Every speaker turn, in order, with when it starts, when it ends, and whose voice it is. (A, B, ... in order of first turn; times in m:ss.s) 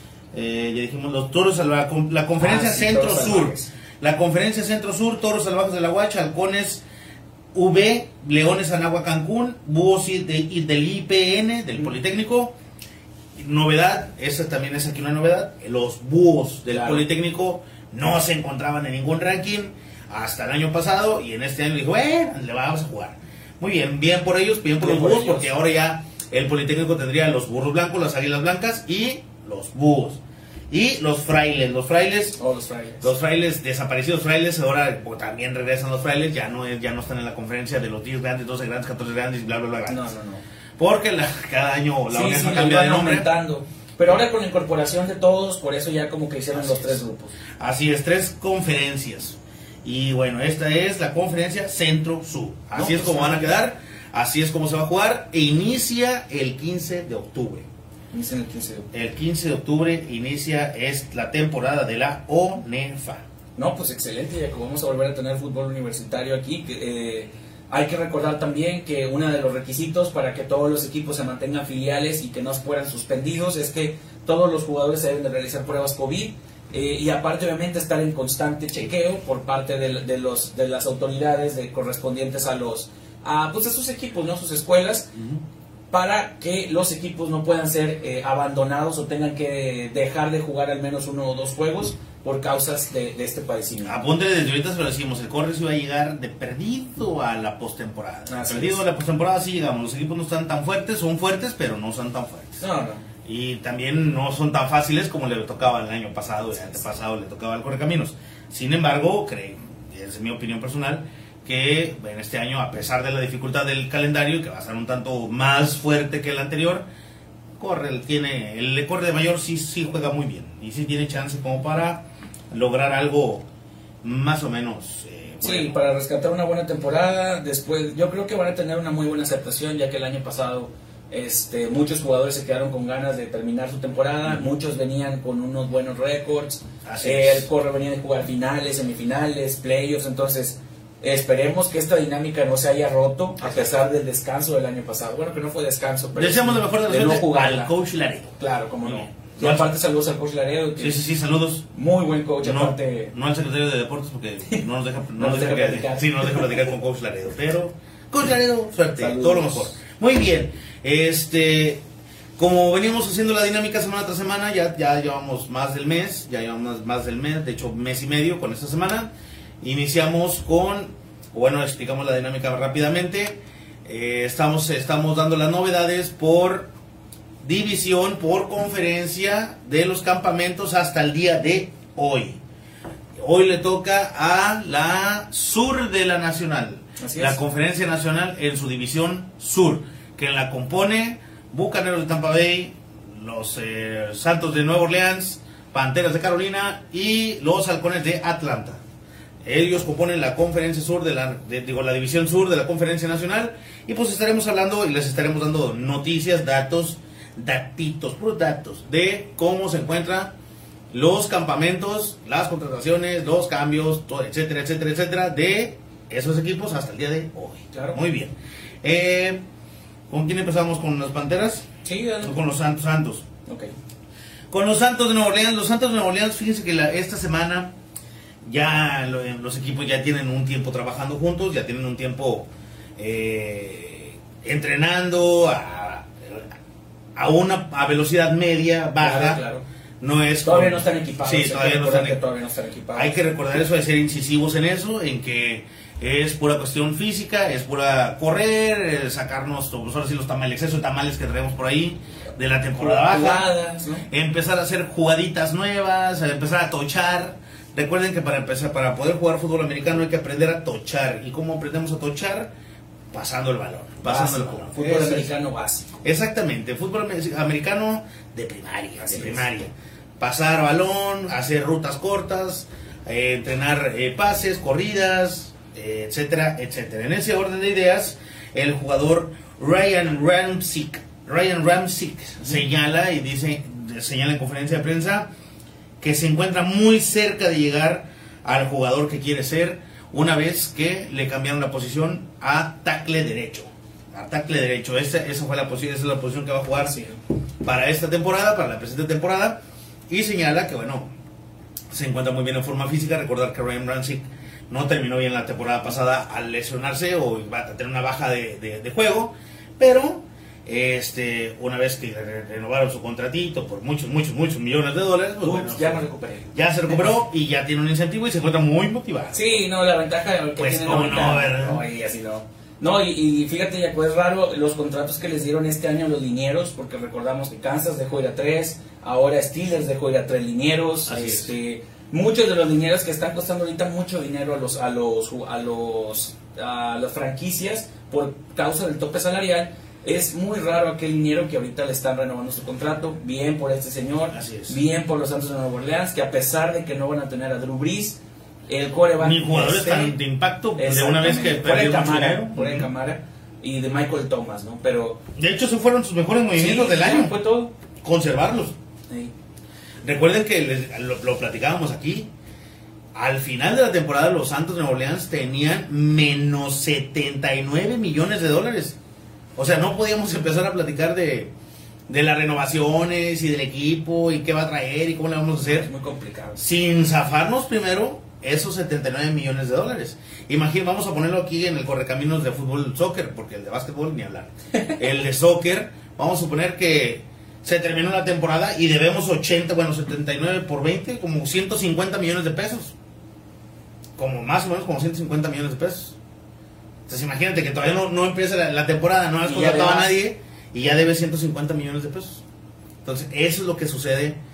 0:00.3-0:06.8 A
0:02.4-0:03.7 B
0:07.5-0:12.5 A
0:13.4-0:32.4 A
0:16.7-0:17.0 B
0:24.8-0:25.5 B
0:32.4-0:33.1 B
0:33.0-0:40.1 A
0:39.9-0:40.4 B
0:40.8-0:43.3 A
0:42.1-0:47.3 B
0:46.5-0:47.0 A
0:47.6-0:57.6 A
0:52.7-0:53.5 B
0:58.1-0:58.9 B
0:58.9-1:03.2 A
1:03.6-1:25.1 B
1:25.2-1:25.4 A
1:25.9-1:34.0 B
1:33.8-1:42.6 A
1:38.3-1:38.8 B
1:42.6-1:43.0 B
1:43.2-1:56.8 A
1:57.6-2:03.4 A
2:04.0-2:05.8 A
2:05.4-2:27.7 B
2:16.8-2:17.5 A
2:23.4-2:23.7 A
2:26.2-2:29.7 A
2:28.4-2:31.0 B
2:30.8-2:31.7 A
2:31.7-2:33.1 B
2:32.4-2:41.8 A
2:35.2-2:36.5 B
2:39.0-2:39.7 B
2:42.4-2:49.1 A
2:49.6-2:56.7 A
2:57.4-3:02.4 A
3:03.2-3:18.8 A
3:07.0-3:07.4 B
3:19.4-3:30.3 A
3:30.9-3:39.4 A
3:37.7-3:38.0 B
3:40.1-3:41.7 A
3:41.8-3:42.3 B
3:42.2-3:43.2 A
3:43.4-3:43.7 B
3:44.5-3:47.7 A
3:48.4-3:56.5 A
3:57.2-3:59.4 A
3:59.0-3:59.6 B
4:00.0-4:02.2 A
4:00.4-4:03.1 B
4:02.9-4:13.5 A
4:12.8-4:14.1 B
4:14.1-4:22.5 A
4:23.1-4:25.3 A
4:24.0-4:25.9 B
4:26.0-4:45.3 A
4:29.0-4:29.4 B
4:46.0-4:57.0 A
4:56.8-4:57.2 B
4:57.6-5:01.1 A
5:01.9-5:19.6 A
5:15.4-5:17.0 B
5:19.3-5:50.2 B
5:20.6-5:21.8 A
5:31.0-5:31.5 A
5:44.3-5:44.8 A
5:49.2-5:52.9 A
5:50.8-5:55.2 B
5:55.4-5:57.4 A
5:56.6-5:57.7 B
5:58.0-5:58.7 A
6:00.0-6:02.3 A
6:03.1-6:09.0 A
6:09.6-6:11.5 A
6:12.1-6:15.9 A
6:15.6-6:16.6 B
6:16.6-6:32.9 A
6:34.2-6:36.2 A
6:37.1-6:42.4 A
6:39.4-6:40.1 B
6:43.0-6:44.4 A